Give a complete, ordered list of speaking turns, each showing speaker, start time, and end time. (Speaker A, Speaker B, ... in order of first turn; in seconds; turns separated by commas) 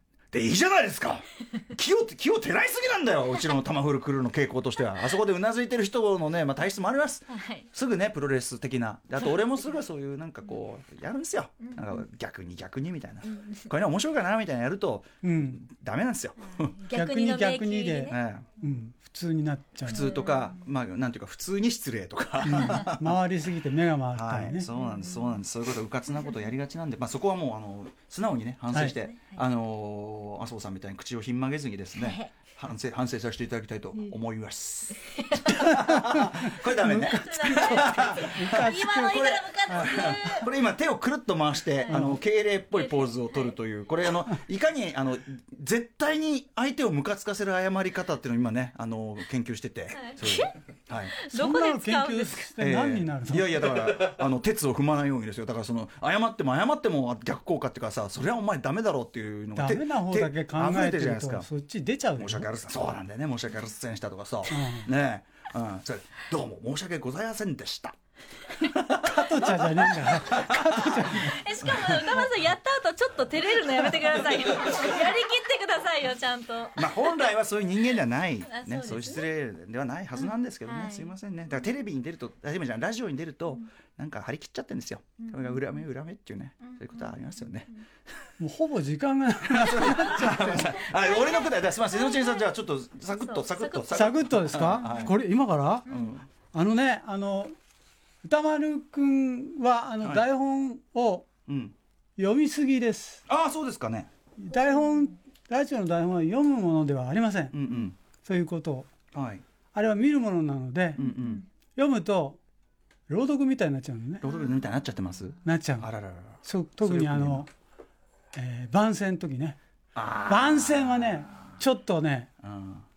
Speaker A: 0.3-16.7, Speaker B: 7.3-7.7, Speaker B: 9.3-9.7, Speaker B: 11.6-12.0, Speaker B: 13.2-13.6, Speaker C: 15.2-15.6, Speaker B: 16.5-18.2, Speaker C: 16.9-20.1, Speaker A: 18.1-18.4, Speaker A: 19.8-23.1, Speaker B: 19.9-20.6, Speaker C: 22.4-24.7, Speaker A: 24.1-51.1, Speaker B: 24.7-25.4, Speaker B: 28.9-29.4, Speaker B: 31.9-32.3, Speaker B: 35.0-35.7, Speaker B: 36.9-40.4, Speaker C: 37.5-40.3, Speaker B: 41.7-42.1, Speaker C: 41.9-42.2, Speaker B: 42.7-43.5, Speaker B: 49.9-50.6, Speaker B: 51.1-52.5, Speaker C: 51.3-53.9, Speaker A: 52.6-61.5, Speaker C: 59.5-62.5, Speaker A: 62.2-68.0, Speaker C: 64.5-64.9, Speaker A: 68.6-71.0, Speaker C: 68.9-71.4, Speaker B: 70.0-77.3, Speaker A: 71.7-72.2, Speaker A: 76.8-87.7, Speaker B: 78.5-79.2, Speaker B: 80.2-81.7, Speaker B: 85.2-85.8, Speaker B: 86.6-87.8, Speaker C: 88.4-90.8, Speaker A: 89.5-95.2, Speaker B: 89.7-92.5, Speaker B: 93.2-93.9, Speaker C: 93.9-95.8, Speaker B: 94.6-95.1, Speaker B: 95.9-96.2, Speaker A: 95.9-96.2, Speaker C: 96.5-97.5, Speaker C: 98.2-101.3, Speaker A: 101.5-101.7, Speaker C: 102.2-103.2, Speaker A: 103.3-104.1, Speaker C: 104.4-107.5, Speaker A: 107.5-108.0, Speaker C: 108.2-108.9, Speaker A: 109.1-109.4, Speaker C: 109.7-111.0, Speaker A: 111.0-111.4, Speaker B: 111.0-111.4, Speaker C: 111.8-112.4, Speaker C: 113.1-114.3, Speaker A: 114.2-117.4, Speaker C: 115.4-115.9, Speaker C: 116.4-117.5, Speaker C: 118.3-119.6, Speaker A: 119.9-121.4, Speaker C: 120.3-122.3, Speaker A: 122.4-122.8